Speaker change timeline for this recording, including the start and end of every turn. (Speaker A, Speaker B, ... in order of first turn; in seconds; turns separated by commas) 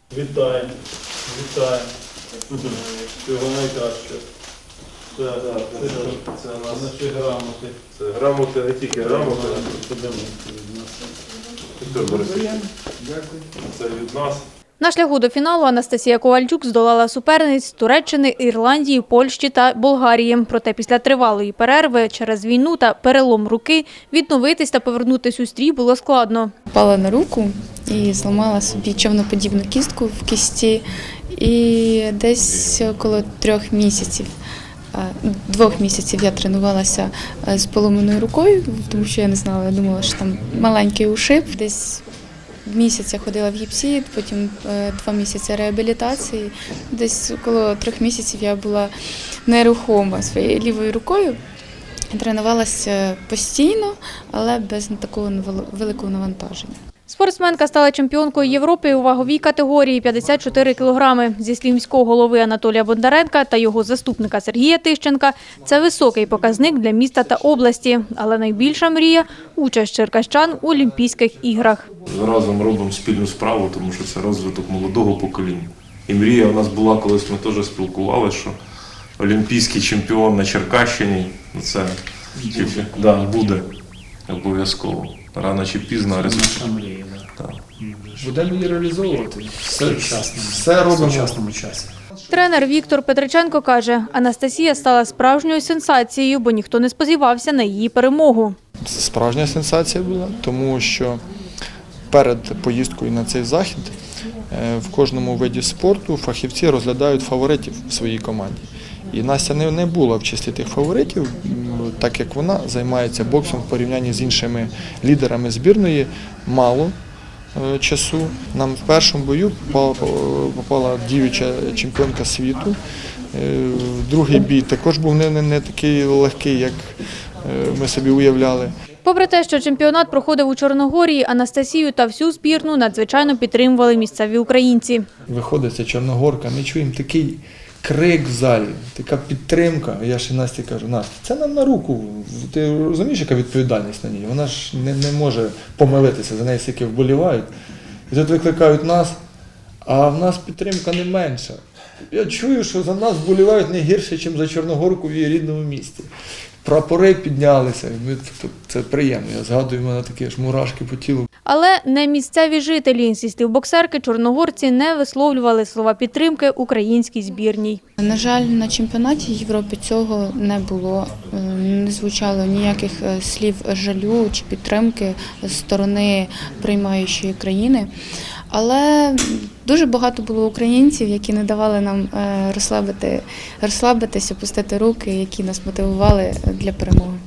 Speaker A: 0.1-0.7, Speaker A: 1.2-1.9, Speaker A: 2.5-4.2, Speaker A: 5.1-7.7, Speaker B: 5.4-6.9, Speaker B: 7.9-9.8, Speaker A: 8.9-11.1, Speaker B: 11.8-12.7, Speaker C: 11.9-13.4, Speaker B: 13.6-14.5, Speaker D: 14.8-26.5, Speaker E: 26.7-34.3, Speaker E: 34.9-42.0, Speaker E: 42.6-48.9, Speaker E: 49.5-51.4, Speaker E: 52.1-56.8, Speaker D: 57.1-71.9, Speaker B: 72.0-78.6, Speaker B: 79.2-83.7, Speaker B: 84.3-86.6, Speaker F: 86.1-91.9, Speaker B: 87.3-87.7, Speaker C: 88.2-91.4, Speaker D: 92.3-98.5, Speaker C: 98.8-101.2, Speaker C: 102.1-103.9, Speaker C: 104.5-116.9, Speaker C: 117.5-122.8, Speaker C: 123.3-128.7, Speaker D: 129.0-135.1, Speaker C: 135.3-147.5, Speaker C: 148.1-149.2, Speaker C: 149.8-156.1, Speaker C: 156.6-161.3, Speaker D: 161.4-167.8, Speaker E: 168.0-177.9, Speaker E: 178.5-187.2